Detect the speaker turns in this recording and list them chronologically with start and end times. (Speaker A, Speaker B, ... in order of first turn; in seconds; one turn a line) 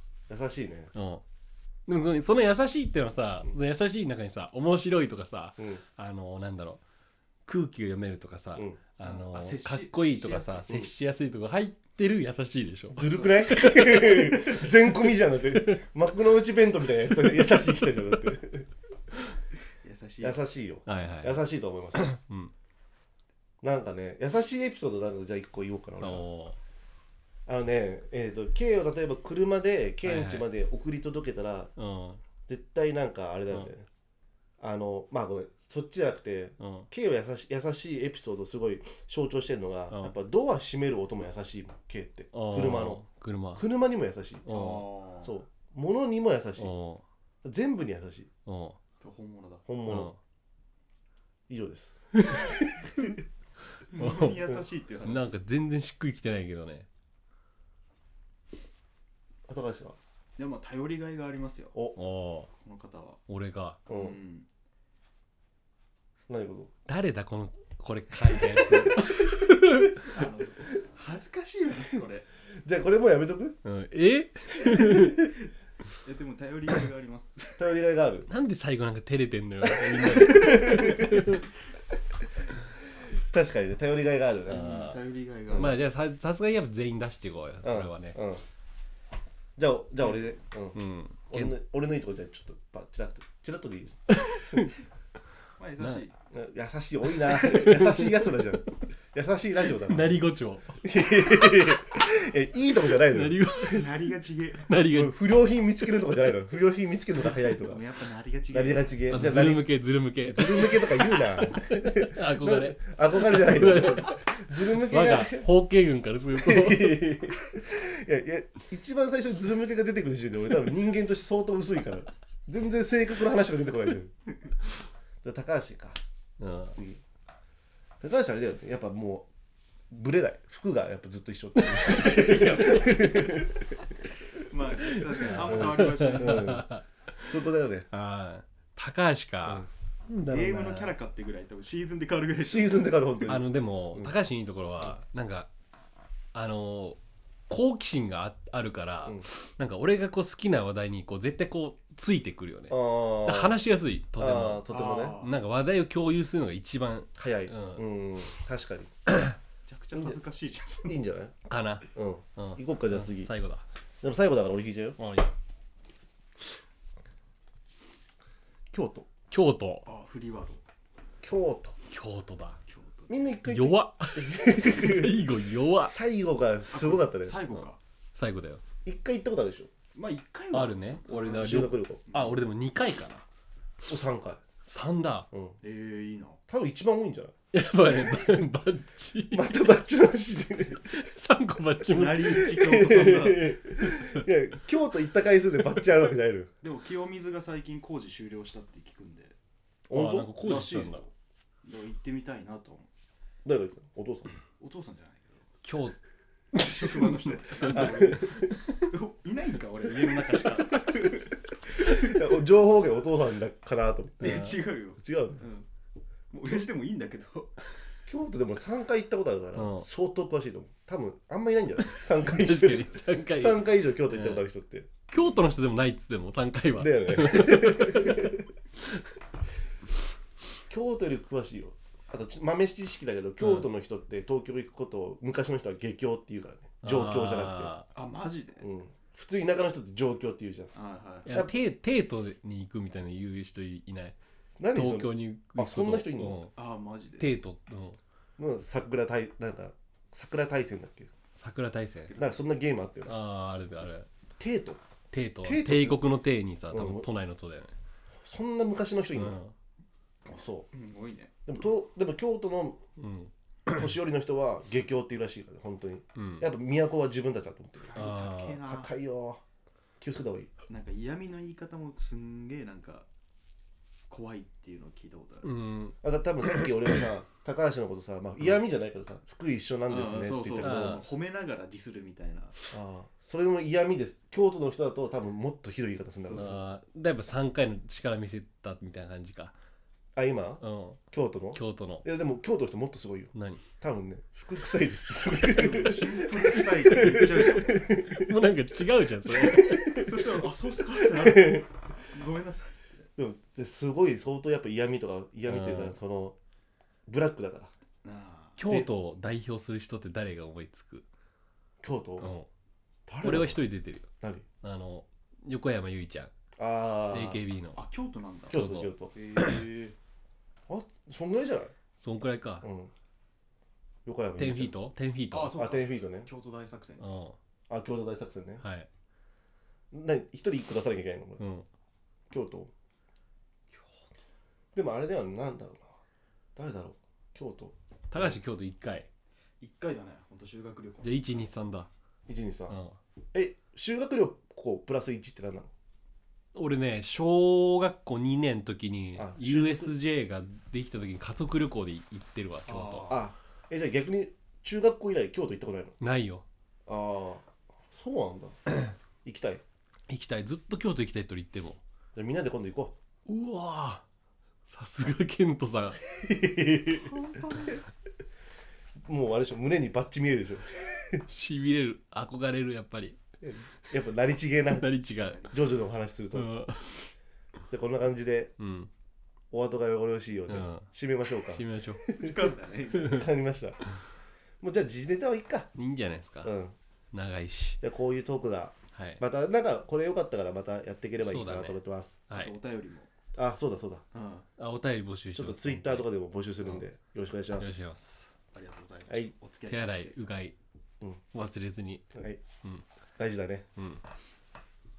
Speaker A: 0.3-0.9
Speaker B: 0.9-1.2
Speaker B: 1.9-6.8
Speaker B: 7.5-14.7
Speaker C: 9.0-10.7
Speaker A: 12.9-18.7
Speaker B: 15.5-15.8
Speaker C: 19.8-20.4
Speaker A: 20.2-22.1
Speaker B: 20.9-21.4
Speaker B: 21.9-22.5
Speaker A: 23.6-26.3
Speaker B: 26.0-26.6
Speaker A: 27.5-31.7
Speaker B: 30.0-30.5
Speaker B: 31.8-32.2
Speaker A: 32.5-33.9
Speaker A: 34.6-43.0
Speaker B: 36.6-36.9
Speaker B: 39.9-40.2
Speaker B: 42.3-43.7
Speaker A: 43.6-44.5
Speaker B: 44.5-44.9
Speaker C: 44.5-45.3
Speaker A: 45.2-46.7
Speaker B: 46.6-47.0
Speaker A: 47.4-48.3
Speaker B: 48.5-48.8
Speaker C: 49.0-49.6
Speaker A: 49.7-50.1
Speaker B: 49.9-50.2
Speaker A: 51.5-53.1
Speaker B: 52.1-52.5
Speaker C: 53.9-55.4
Speaker B: 54.0-54.5
Speaker B: 55.0-56.9
Speaker A: 59.5-60.0
Speaker C: 60.4-61.8
Speaker B: 62.0-62.5
Speaker C: 62.6-63.2
Speaker B: 63.3-63.8
Speaker C: 63.9-64.5
Speaker A: 63.9-64.2
Speaker A: 66.3-66.7
Speaker B: 66.9-70.1
Speaker C: 70.0-72.3
Speaker A: 72.6-73.6
Speaker B: 73.6-75.3
Speaker A: 74.6-75.1
Speaker C: 76.0-77.7
Speaker A: 77.6-78.3
Speaker B: 78.3-81.5
Speaker A: 79.9-81.2
Speaker C: 80.4-80.9
Speaker A: 83.1-84.9
Speaker B: 84.5-85.0
Speaker C: 84.5-85.8
Speaker B: 85.5-88.2
Speaker A: 87.6-88.4
Speaker A: 89.6-90.8
Speaker B: 90.7-91.6
Speaker A: 91.3-94.0
Speaker B: 94.1-94.7
Speaker C: 95.6-96.1
Speaker A: 96.3-100.2
Speaker B: 97.2-98.3
Speaker B: 99.8-100.9
Speaker A: 100.8-103.4
Speaker B: 103.0-104.0
Speaker C: 103.7-104.7
Speaker B: 104.6-105.2
Speaker A: 104.9-107.8
Speaker C: 107.5-109.2
Speaker A: 108.5-109.7
Speaker B: 109.1-117.1
Speaker A: 110.2-115.5
Speaker A: 116.3-124.1
Speaker A: 125.2-126.0
Speaker B: 126.4-126.8
Speaker A: 126.7-127.0
Speaker A: 128.0-129.3
Speaker A: 129.9-133.8
Speaker C: 131.8-133.5
Speaker B: 132.1-133.0
Speaker C: 134.3-136.6
Speaker B: 134.9-137.4
Speaker A: 135.4-136.7
Speaker A: 137.2-137.9
Speaker B: 137.9-140.9
Speaker C: 140.3-143.1
Speaker A: 142.4-144.1
Speaker B: 143.3-145.5
Speaker B: 146.3-157.8
Speaker A: 152.7-153.6
Speaker A: 154.2-155.2
Speaker C: 154.7-155.4
Speaker A: 157.2-158.9
Speaker C: 159.7-161.1
Speaker A: 160.8-161.3
Speaker B: 161.5-163.7
Speaker A: 161.9-163.3
Speaker A: 164.0-165.0
Speaker B: 165.0-165.3
Speaker A: 168.7-169.1
Speaker B: 169.3-169.9
Speaker C: 169.9-170.6
Speaker A: 171.2-171.7
Speaker B: 171.9-172.6
Speaker C: 172.7-173.4
Speaker A: 173.1-177.4
Speaker B: 173.5-176.0
Speaker C: 176.7-177.8
Speaker B: 177.5-178.6
Speaker A: 178.8-179.7
Speaker C: 179.9-182.4
Speaker B: 180.5-183.2
Speaker A: 181.1-182.0
Speaker A: 183.9-184.4
Speaker B: 184.7-185.3
Speaker C: 185.6-186.4
Speaker A: 186.5-187.3
Speaker B: 187.5-189.6
Speaker A: 187.9-188.4
Speaker A: 189.3-190.9
Speaker B: 190.8-192.6
Speaker C: 191.9-193.6
Speaker A: 192.3-196.5
Speaker B: 193.9-194.2
Speaker C: 196.6-199.3
Speaker A: 199.9-200.3
Speaker B: 199.9-201.0
Speaker C: 200.4-201.1
Speaker C: 201.6-202.9
Speaker A: 203.4-204.4
Speaker C: 204.6-205.5
Speaker B: 205.6-206.0
Speaker B: 206.5-208.8
Speaker C: 206.6-212.2
Speaker A: 207.6-208.5
Speaker B: 210.4-210.8
Speaker A: 211.8-215.4
Speaker C: 214.2-215.7
Speaker B: 214.2-214.6
Speaker C: 216.3-217.6
Speaker A: 218.1-224.9
Speaker B: 219.6-219.9
Speaker B: 221.9-224.4
Speaker B: 225.1-228.4
Speaker A: 226.8-228.4
Speaker A: 230.7-237.8
Speaker B: 233.4-233.7
Speaker B: 236.8-237.9
Speaker C: 237.9-238.7
Speaker A: 238.6-240.7
Speaker C: 240.7-241.3
Speaker B: 241.3-244.2
Speaker A: 244.6-246.4
Speaker B: 244.7-246.5
Speaker C: 246.6-247.4
Speaker B: 247.2-248.0
Speaker A: 248.4-251.1
Speaker B: 251.4-252.1
Speaker C: 252.1-252.4
Speaker A: 252.2-253.2
Speaker B: 253.1-254.1
Speaker A: 254.4-254.8
Speaker B: 255.1-257.7
Speaker A: 255.4-256.0
Speaker A: 256.7-257.1
Speaker A: 258.2-259.4
Speaker B: 259.1-259.5
Speaker A: 260.3-260.7
Speaker C: 260.7-261.3
Speaker A: 261.5-262.8
Speaker B: 263.0-263.9
Speaker A: 263.7-269.4
Speaker B: 266.2-266.5
Speaker C: 267.8-268.9
Speaker B: 267.9-268.6
Speaker A: 270.0-270.5
Speaker C: 270.7-273.1
Speaker C: 274.1-275.6
Speaker B: 275.4-276.7
Speaker A: 276.0-281.0
Speaker C: 279.9-282.6
Speaker B: 280.6-281.0
Speaker A: 282.7-286.6
Speaker B: 286.3-289.5
Speaker A: 290.1-298.4
Speaker B: 290.6-291.0
Speaker B: 291.5-292.1
Speaker B: 293.3-293.6
Speaker C: 295.4-297.9
Speaker B: 297.1-300.0
Speaker A: 299.2-300.4
Speaker C: 299.6-303.0
Speaker A: 301.0-301.6
Speaker A: 303.2-306.4
Speaker B: 305.5-306.0
Speaker A: 307.1-307.7
Speaker C: 308.0-308.6
Speaker B: 308.6-311.1
Speaker A: 311.8-312.3
Speaker B: 312.2-312.5
Speaker A: 313.1-313.6
Speaker B: 313.2-314.1
Speaker B: 314.6-316.3
Speaker A: 316.6-317.4
Speaker B: 317.1-317.8
Speaker C: 317.8-318.6
Speaker A: 318.5-319.1
Speaker B: 318.5-319.6
Speaker C: 319.1-320.0
Speaker A: 320.7-321.7
Speaker B: 322.0-322.7
Speaker A: 322.6-322.9
Speaker A: 324.1-324.7
Speaker B: 324.4-325.7
Speaker C: 325.3-327.2
Speaker A: 325.6-326.3
Speaker B: 327.0-327.4
Speaker A: 327.7-328.6
Speaker B: 328.6-328.9
Speaker A: 329.9-331.4
Speaker B: 331.4-331.7
Speaker A: 332.3-332.7
Speaker C: 333.7-334.0
Speaker A: 334.7-335.9
Speaker A: 336.6-338.4
Speaker B: 338.1-339.1
Speaker C: 339.6-341.4
Speaker B: 341.0-341.9
Speaker A: 342.3-342.8
Speaker B: 342.7-343.0
Speaker A: 343.3-345.7
Speaker B: 346.5-353.1
Speaker A: 349.2-349.9
Speaker C: 352.7-353.3
Speaker A: 353.1-356.0
Speaker B: 356.0-356.4
Speaker A: 356.9-358.6
Speaker A: 359.2-359.6
Speaker B: 360.1-361.8
Speaker A: 362.1-362.9
Speaker B: 363.3-364.1
Speaker B: 364.7-366.0
Speaker A: 366.2-367.7
Speaker C: 367.0-367.8
Speaker A: 369.1-371.2
Speaker B: 371.3-373.2
Speaker A: 373.4-375.0
Speaker B: 374.7-375.6
Speaker C: 375.3-375.7
Speaker A: 375.5-376.5
Speaker B: 376.3-377.1
Speaker A: 377.7-378.6
Speaker B: 378.6-378.9
Speaker A: 379.5-382.3
Speaker B: 380.5-382.1
Speaker C: 382.1-383.3
Speaker A: 382.9-383.8
Speaker A: 384.6-385.7
Speaker B: 385.8-386.5
Speaker A: 386.4-386.8
Speaker B: 387.1-387.8
Speaker A: 387.8-392.2
Speaker B: 388.9-389.2
Speaker B: 391.2-392.5
Speaker C: 392.3-393.1
Speaker A: 393.4-394.0
Speaker C: 394.1-394.5
Speaker B: 394.6-396.1
Speaker A: 395.4-397.9
Speaker B: 397.5-398.3
Speaker C: 398.5-400.1
Speaker B: 399.7-400.6
Speaker B: 401.3-402.9
Speaker A: 402.1-402.4
Speaker A: 403.2-403.7
Speaker B: 403.8-404.0